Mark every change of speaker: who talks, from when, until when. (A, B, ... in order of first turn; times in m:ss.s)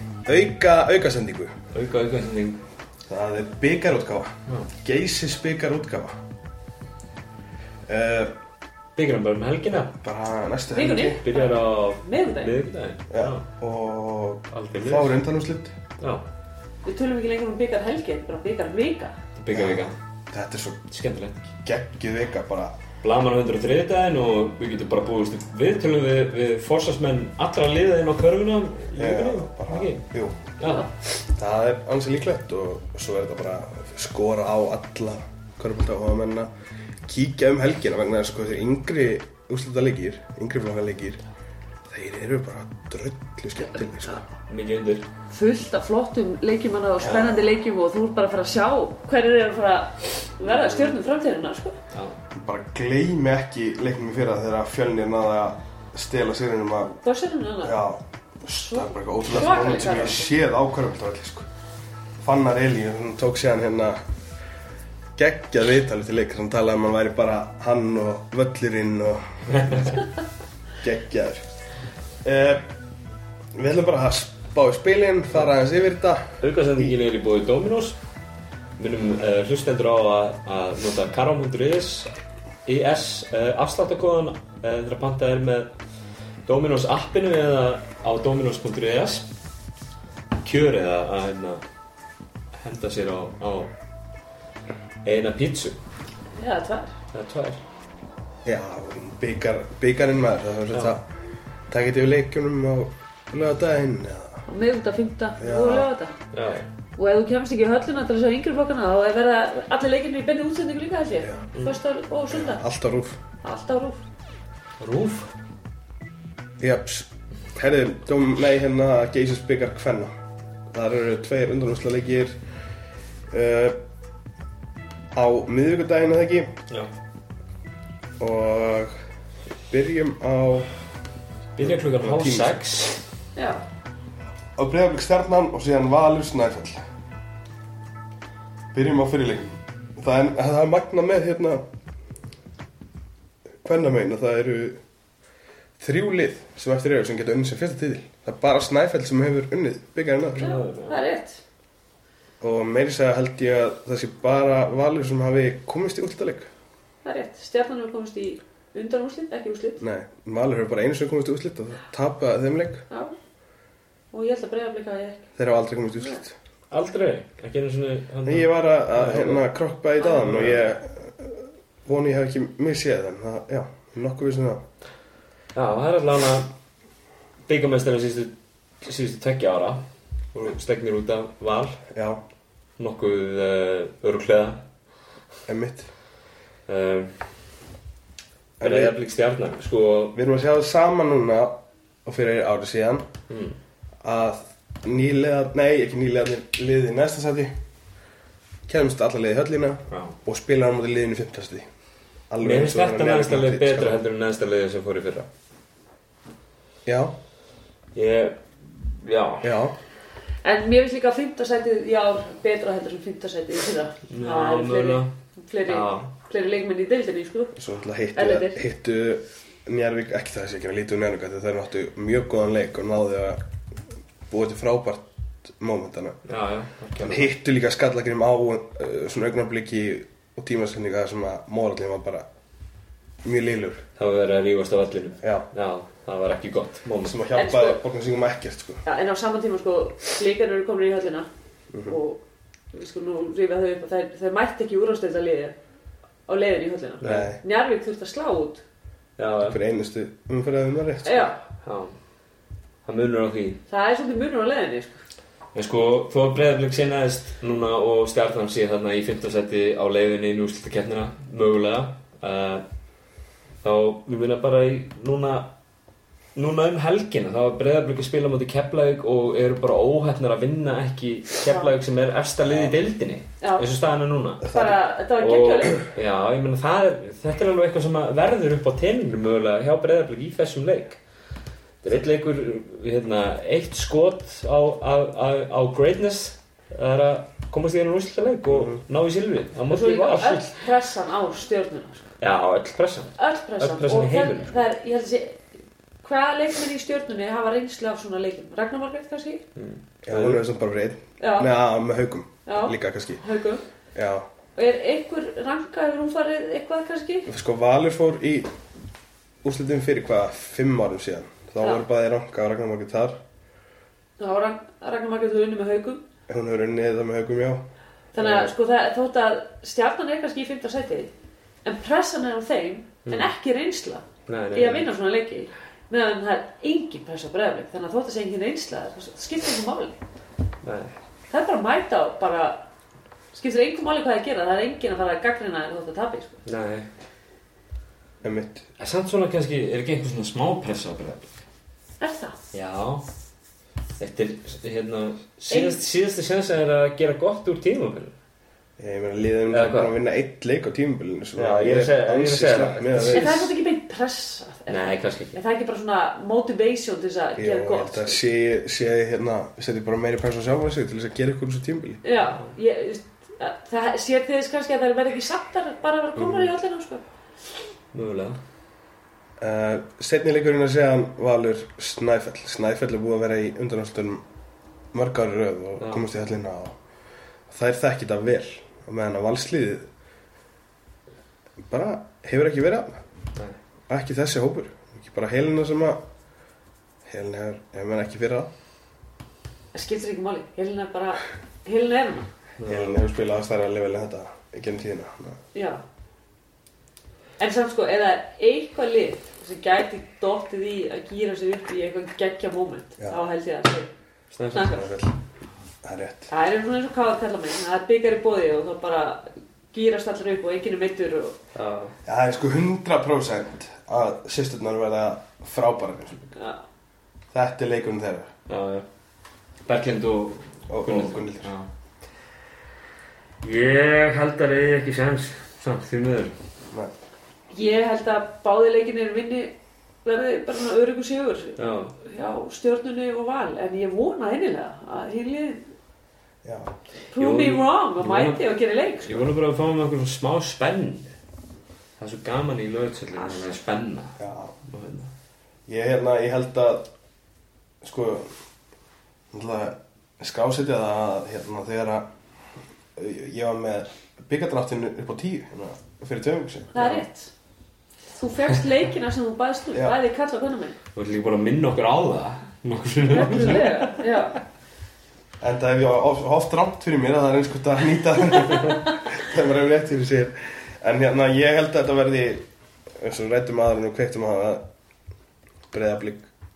0:00.3-0:01.5 A
0:01.7-0:02.6 B
0:03.1-0:06.2 A
0:07.9-0:08.3 A
0:09.0-0:09.9 B
0:09.9-0:11.2 A
0:10.7-0:12.6 C
0:11.2-0:13.4 B
0:13.1-0:15.8 A
0:14.5-0:15.2 B
0:16.8-0:19.2 C
0:19.4-0:20.0 B
0:19.5-0:20.8 A
0:20.9-0:21.5 B
0:21.6-0:22.8 A
0:23.0-0:30.0 B
0:29.0-0:30.5 A
0:30.6-0:30.9 B
0:31.3-0:36.5 A
0:37.1-0:41.2 A
0:41.9-0:44.2 A
0:44.5-0:45.0 B
0:45.3-0:51.8 C
0:47.0-0:47.4 A
0:50.5-0:50.9 A
0:52.3-0:57.0 A
0:57.0-0:57.8 C
0:57.6-1:01.5 A
0:58.5-1:00.3 C
1:02.2-1:04.0 A
1:05.2-1:10.0 A
1:09.6-1:10.0 B
1:10.8-1:11.5 A
1:12.2-1:12.7 A
1:13.6-1:16.2 A
1:16.4-1:18.0 B
1:18.8-1:22.1 B
1:22.7-1:25.7 B
1:26.5-1:29.3 B
1:30.4-1:31.6 B
1:32.6-1:33.7 B
1:35.0-1:35.8 B
1:36.4-1:36.9 C
1:37.1-1:37.6 B
1:38.4-1:41.1 A
1:41.7-1:44.4 A
1:44.5-1:46.2 C
1:45.4-1:45.9 A
1:46.3-1:46.7 B
1:47.0-1:52.6 C
1:51.2-1:51.5 A
1:52.3-1:53.2 A
1:53.4-1:54.0 C
1:54.8-1:55.3 B
1:56.6-2:00.1 A
2:00.7-2:02.4 A
2:03.3-2:03.8 A
2:05.2-2:06.5 A
2:08.2-2:09.0 A
2:09.7-2:10.7 A
2:11.6-2:13.0 B
2:11.6-2:12.6 A
2:13.4-2:13.6 C
2:14.6-2:16.8 A
2:18.7-2:21.6 A
2:23.6-2:24.8 A
2:25.8-2:30.5 A
2:30.3-2:31.0 B
2:30.4-2:31.4 C
2:32.4-2:36.5 A
2:37.0-2:39.8 C
2:39.8-2:42.9 A
2:44.1-2:45.3 C
2:45.4-2:46.4 A
2:46.7-2:49.4 B
2:48.2-2:54.6 A
2:50.0-2:50.7 B
2:55.6-2:56.5 B
2:57.5-2:59.8 B
3:00.3-3:01.8 B
3:01.9-3:02.2 A
3:02.8-3:04.6 B
3:05.5-3:05.9 A
3:06.7-3:07.1 B
3:08.6-3:10.2 B
3:08.6-3:09.0 A
3:10.1-3:13.1 A
3:13.3-3:13.6 B
3:14.0-3:17.5 A
3:18.7-3:21.7 A
3:19.9-3:20.2 B
3:22.3-3:24.0 A
3:22.4-3:25.3 B
3:26.8-3:27.1 A
3:28.0-3:29.6 B
3:29.4-3:29.8 A
3:30.4-3:37.5 C
3:34.1-3:35.1 B
3:35.6-3:36.1 B
3:37.6-3:43.4 A
3:38.2-3:38.6 C
3:44.3-3:46.2 A
3:46.3-3:47.3 B
3:47.0-3:52.3 A
3:53.2-3:53.8 A
3:54.0-3:57.2 B
3:55.2-3:55.5 A
3:57.0-3:58.8 A
3:57.3-3:57.8 C
3:58.8-4:01.3 C
4:01.9-4:02.2 C
4:02.7-4:05.6 C
4:06.3-4:08.6 C
4:07.0-4:07.3 B
4:07.0-4:07.4 A
4:09.2-4:09.6 B
4:09.4-4:11.3 A
4:11.0-4:11.4 C
4:11.6-4:11.9 B
4:12.9-4:13.6 B
4:13.7-4:15.0 C
4:15.5-4:22.6 B
4:23.6-4:25.5 B
4:26.4-4:34.5 B
4:31.5-4:31.7 C
4:32.4-4:32.8 A
4:33.4-4:33.7 C
4:34.4-4:34.8 A
4:34.4-4:35.9 C
4:35.2-4:41.0 B
4:41.8-4:50.6 B
4:48.5-4:48.8 A
4:49.7-4:52.1 C
4:52.2-4:54.6 B
4:53.2-4:55.4 C
4:56.0-4:59.4 C
4:59.6-5:00.4 B
5:00.0-5:03.2 A
5:01.2-5:01.5 C
5:02.5-5:03.6 C
5:04.0-5:04.2 A
5:04.6-5:07.3 C
5:07.3-5:08.5 A
5:09.4-5:13.2 A
5:11.6-5:11.8 C
5:14.2-5:16.0 C
5:16.3-5:17.6 A
5:18.1-5:21.1 C
5:18.2-5:18.5 B
5:21.6-5:30.0 C
5:23.1-5:23.3 B
5:24.3-5:24.9 B
5:30.6-5:30.9 B
5:31.3-5:32.6 C
5:33.3-5:36.4 C
5:36.5-5:36.9 B
5:38.2-5:38.6 A
5:38.8-5:41.4 B
5:42.0-5:42.4 C
5:42.5-5:43.0 B
5:44.0-5:48.1 B
5:45.5-5:45.8 C
5:48.8-5:53.4 A
5:49.5-5:50.0 B
5:51.4-5:53.5 B
5:53.0-5:58.2 C
5:54.7-5:55.4 B
5:57.4-6:02.0 A
6:02.0-6:07.0 C
6:06.2-6:06.5 A
6:07.9-6:08.4 B
6:09.4-6:14.2 A
6:14.9-6:16.8 A
6:15.8-6:16.0 B
6:17.5-6:19.9 A
6:21.7-6:23.0 A
6:23.9-6:26.0 A
6:27.0-6:28.5 A
6:29.7-6:32.3 C
6:32.6-6:33.0 B
6:32.6-6:35.4 A
6:35.5-6:35.8 C
6:37.4-6:43.9 C
6:44.3-6:44.9 B
6:44.5-6:44.9 C
6:44.6-6:45.1 A
6:45.8-6:46.3 A
6:46.3-6:51.4 C
6:51.6-6:51.9 B
6:52.1-6:56.3 A
6:56.4-6:56.6 C
6:57.3-6:58.3 A
6:58.5-6:58.9 B
6:59.7-7:01.7 B
7:00.7-7:01.5 A
7:03.4-7:06.3 B
7:07.5-7:15.7 C
7:11.6-7:12.0 B
7:16.4-7:16.7 A
7:17.1-7:19.3 C
7:17.2-7:18.4 B
7:19.0-7:21.1 B
7:22.0-7:24.2 B
7:24.2-7:24.6 A
7:24.7-7:25.1 B
7:25.7-7:26.9 A
7:27.8-7:28.3 A
7:29.3-7:32.1 A
7:33.0-7:36.9 A
7:36.7-7:37.3 C
7:38.2-7:40.8 C
7:41.0-7:44.0 B
7:43.1-7:44.4 C
7:45.4-7:52.4 A
7:53.0-7:54.6 A
7:55.7-7:56.3 A